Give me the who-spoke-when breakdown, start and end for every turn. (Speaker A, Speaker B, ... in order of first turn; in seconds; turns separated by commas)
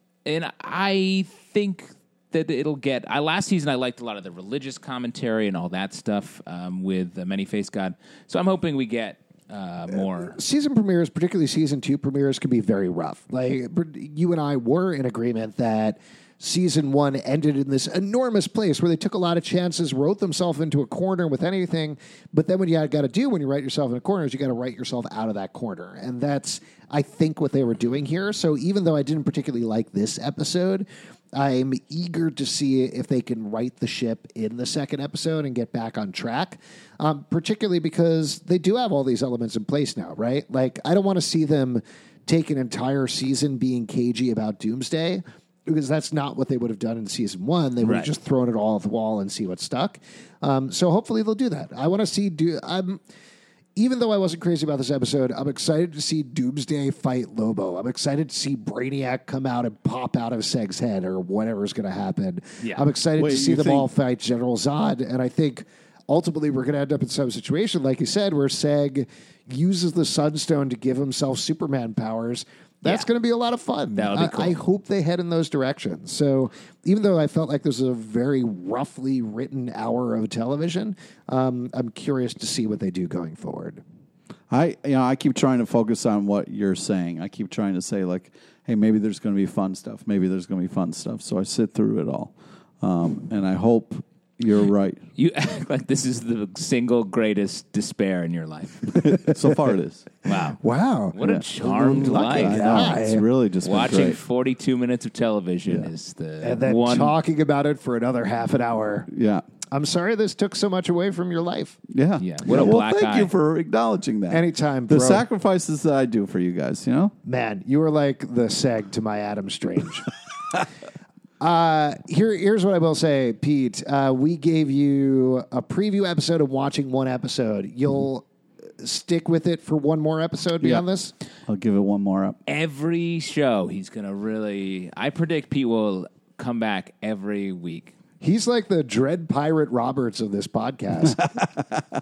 Speaker A: 0.2-10.4, Speaker B: 10.3-53.0, Speaker A: 47.8-48.1, Speaker B: 53.8-83.8, Speaker A: 62.6-62.9, Speaker C: 63.2-63.9, Speaker A: 74.0-74.6, Speaker C: 84.5-95.0, Speaker A: 95.2-99.2, Speaker C: 99.0-100.0, Speaker A: 100.2-100.6, Speaker B: 100.6-103.2, Speaker A: 101.1-102.9, Speaker C: 101.2-104.2, Speaker A: 103.6-107.2, Speaker B: 106.4-109.1, Speaker C: 109.1-109.4, Speaker B: 109.7-111.8, Speaker C: 111.9-117.1, Speaker A: 112.2-113.3, Speaker B: 114.3-115.2, Speaker B: 117.2-120.1, Speaker B: 121.4-128.2, Speaker B: 128.8-131.1, Speaker C: 131.5-132.4, Speaker A: 132.5-137.9, Speaker B: 138.2-141.3, Speaker C: 141.1-141.6